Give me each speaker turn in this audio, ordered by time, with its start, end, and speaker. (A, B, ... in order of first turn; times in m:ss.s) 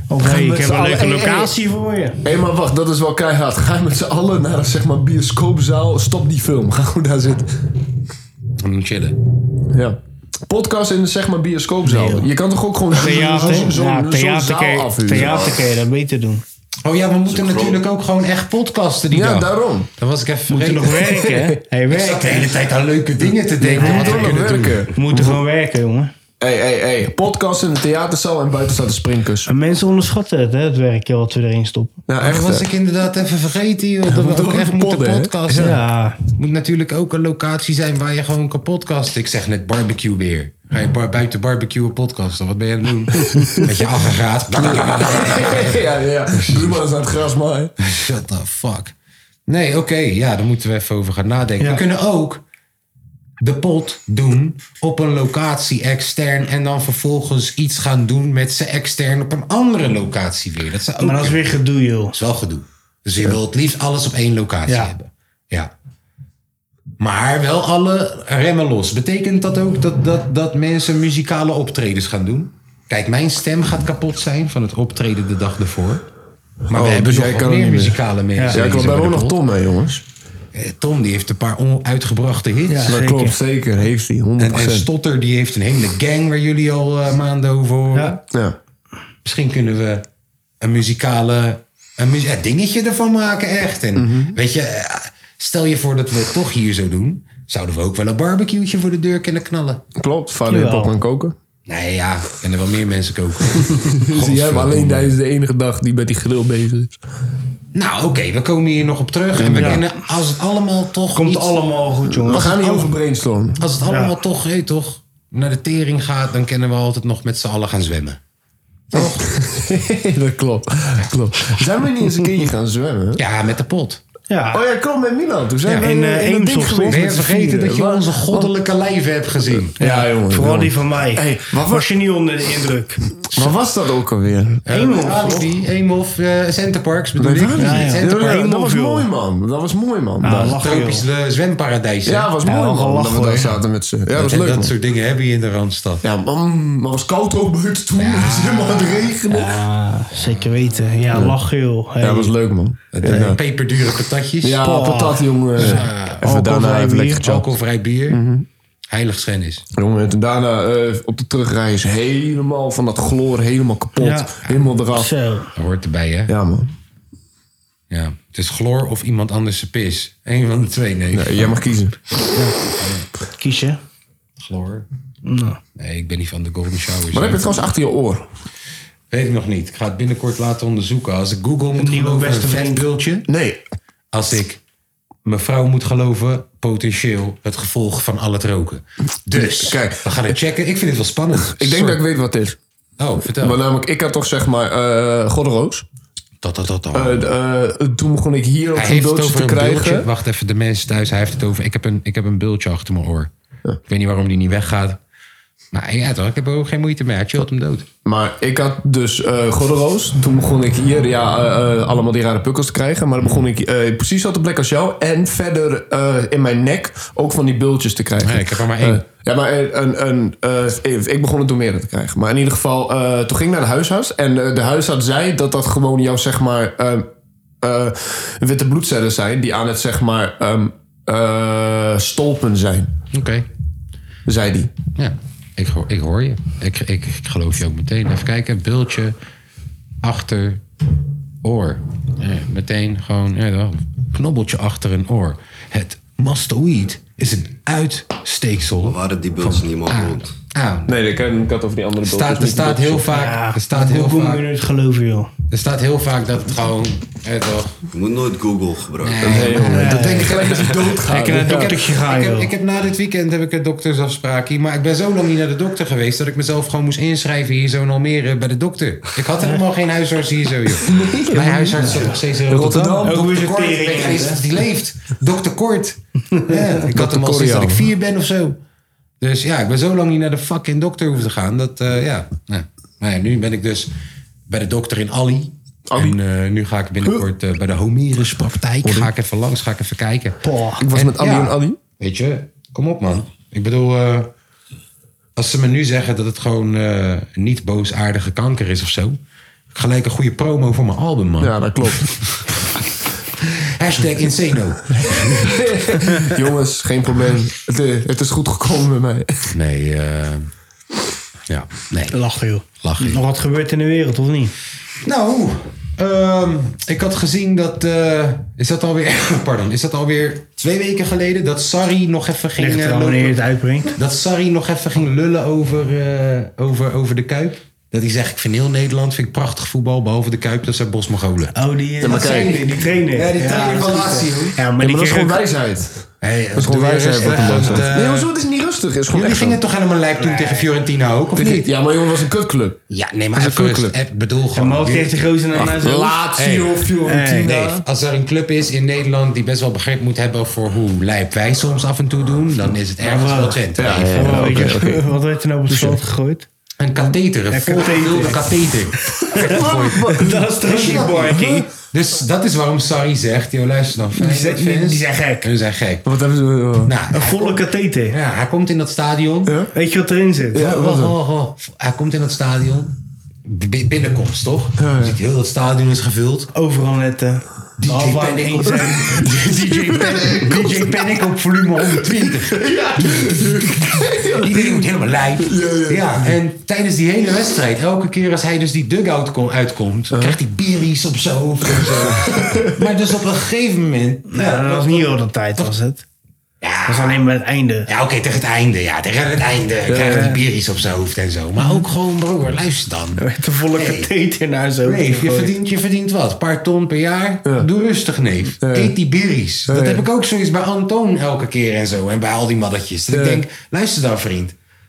0:00.1-0:02.2 A
0:00.2-0:01.5 B
0:02.2-0:07.5 B
0:08.6-0:09.2 C
0:09.7-0:15.4 B
0:11.8-0:12.3 A
0:12.9-0:16.4 A
0:15.2-0:15.6 D
0:16.8-0:21.2 C
0:17.3-0:17.8 D
0:19.1-0:19.9 B
0:20.5-0:22.6 A
0:21.0-0:21.6 B
0:21.9-0:24.9 C
0:23.6-0:25.4 B
0:23.6-0:26.1 A
0:26.4-0:29.5 B
0:29.5-0:32.0 A
0:32.1-0:32.7 B
0:32.2-0:35.8 C
0:34.1-0:35.8 B
0:35.6-0:36.2 A
0:36.4-0:45.8 C
0:43.4-0:43.7 B
0:44.6-0:47.7 B
0:46.4-0:46.8 C
0:47.8-0:48.9 C
0:49.5-0:52.4 C
0:53.4-1:01.5 C
1:01.0-1:02.2 A
1:02.1-1:05.7 C
1:04.7-1:04.9 A
1:07.0-1:16.0 C
1:16.7-1:19.4 C
1:16.7-1:18.0 B
1:18.4-1:18.6 A
1:18.5-1:20.0 B
1:20.5-1:23.0 C
1:22.7-1:23.4 A
1:22.9-1:24.9 B
1:24.4-1:28.2 C
1:27.9-1:28.2 A
1:29.2-1:30.1 C
1:30.6-1:39.8 C
1:34.0-1:34.4 B
1:40.0-1:41.4 B
1:40.5-1:40.9 A
1:41.7-1:45.1 C
1:44.0-1:47.0 B
1:47.7-1:51.6 C
1:49.4-1:49.8 B
1:49.5-1:49.9 A
1:51.1-1:52.9 A
1:52.1-1:53.6 B
1:53.6-1:58.2 C
1:53.8-1:54.1 A
1:58.9-1:59.3 C
1:58.9-2:03.2 B
2:03.2-2:04.0 C
2:04.3-2:04.6 A
2:04.5-2:08.5 B
2:05.6-2:05.9 C
2:05.8-2:07.2 A
2:06.9-2:09.8 C
2:09.5-2:11.9 B
2:09.8-2:13.1 A
2:13.3-2:14.7 B
2:14.7-2:18.4 C
2:14.7-2:15.5 A
2:17.2-2:20.6 B
2:17.6-2:19.1 A
2:20.2-2:21.1 A
2:20.5-2:22.3 C
2:22.1-2:24.7 B
2:22.4-2:23.6 A
2:24.1-2:26.0 C
2:26.0-2:29.5 B
2:28.0-2:29.2 C
2:29.3-2:32.3 A
2:30.2-2:31.2 C
2:32.0-2:33.4 B
2:32.9-2:34.6 C
2:34.4-2:37.5 B
2:34.6-2:37.3 A
2:35.6-2:36.3 C
2:37.2-2:38.2 C
2:38.1-2:38.5 B
2:38.9-2:39.7 C
2:39.8-2:45.1 B
2:44.0-2:44.3 A
2:44.9-2:45.5 A
2:45.6-2:46.3 C
2:46.3-2:46.7 B
2:47.9-2:51.6 C
2:51.1-2:52.0 B
2:52.8-2:53.1 C
2:53.4-2:53.8 A
2:54.4-2:54.9 C
2:55.2-2:55.6 A
2:55.8-2:57.6 C
2:57.1-2:58.3 B
2:59.1-3:03.3 C
3:01.8-3:02.8 A
3:03.3-3:03.6 B
3:04.1-3:04.6 C
3:05.2-3:12.0 C
3:09.4-3:10.3 B
3:11.5-3:12.6 B
3:13.0-3:13.6 C
3:13.4-3:15.8 B
3:16.4-3:17.2 C
3:16.9-3:20.1 B
3:18.7-3:23.3 C
3:23.9-3:25.0 C
3:25.7-3:27.9 C
3:28.0-3:47.1 B
3:38.2-3:39.0 C
3:47.6-3:52.9 B
3:53.1-3:53.5 C
3:54.3-3:54.7 B
3:55.0-3:59.2 C
4:00.0-4:00.6 C
4:01.4-4:10.9 C
4:08.8-4:10.3 D
4:10.9-4:13.1 B
4:12.0-4:14.4 C
4:13.1-4:15.3 A
4:15.5-4:17.8 C
4:17.9-4:19.5 D
4:19.0-4:38.6 C
4:19.2-4:21.7 B
4:19.7-4:20.4 A
4:21.1-4:22.5 A
4:30.8-4:33.3 B
4:31.8-4:32.1 A
4:33.0-4:34.5 A
4:36.9-4:37.9 B
4:39.2-4:43.9 C
4:44.5-4:50.4 C
4:45.9-4:46.2 B
4:48.8-4:49.1 B
4:50.4-4:50.8 A
4:50.8-4:51.8 B
4:50.9-4:54.3 C
4:55.4-4:59.2 C
4:59.7-5:02.1 C
5:01.4-5:02.2 B
5:03.4-5:05.5 C
5:04.9-5:09.5 B
5:09.5-5:10.5 C
5:11.5-5:12.2 C
5:12.1-5:14.5 A
5:12.8-5:13.2 C
5:15.0-5:23.4 C
5:22.6-5:23.9 A
5:23.9-5:34.6 C
5:31.6-5:35.4 A
5:32.0-5:32.6 B
5:34.8-5:39.6 B
5:36.2-5:38.3 C
5:37.2-5:37.7 A
5:39.1-5:41.7 C
5:40.2-5:40.7 A
5:41.4-5:42.8 B
5:42.9-5:45.8 C
5:43.4-5:43.9 B
5:44.5-5:46.2 A
5:45.6-5:47.8 B
5:46.4-5:46.9 C
5:47.0-5:47.5 A
5:47.4-5:54.6 C
5:53.0-5:56.5 A
5:53.8-5:55.1 B
5:55.7-5:56.0 B
5:56.8-6:01.4 C
5:57.5-5:58.5 A
5:59.3-6:01.7 B
5:59.3-6:01.7 A
6:01.9-6:06.0 C
6:04.2-6:05.5 A
6:06.0-6:06.9 B
6:06.8-6:09.5 C
6:07.1-6:08.2 A
6:09.7-6:10.6 A
6:10.5-6:11.1 B
6:10.6-6:12.9 C
6:13.4-6:16.5 C
6:14.8-6:15.2 B
6:16.5-6:21.0 A
6:17.8-6:35.7 C
6:18.8-6:19.2 B
6:19.9-6:20.6 B
6:22.0-6:26.4 B
6:31.7-6:32.7 B
6:34.3-6:36.0 A
6:36.6-6:37.2 C
6:36.9-6:37.9 A
6:37.9-6:44.1 C
6:39.9-6:40.3 B
6:40.0-6:40.4 A
6:41.6-6:41.8 A
6:43.2-6:45.5 A
6:44.8-6:54.6 C
6:48.6-6:48.9 B
6:49.7-6:50.0 B
6:53.1-6:53.4 B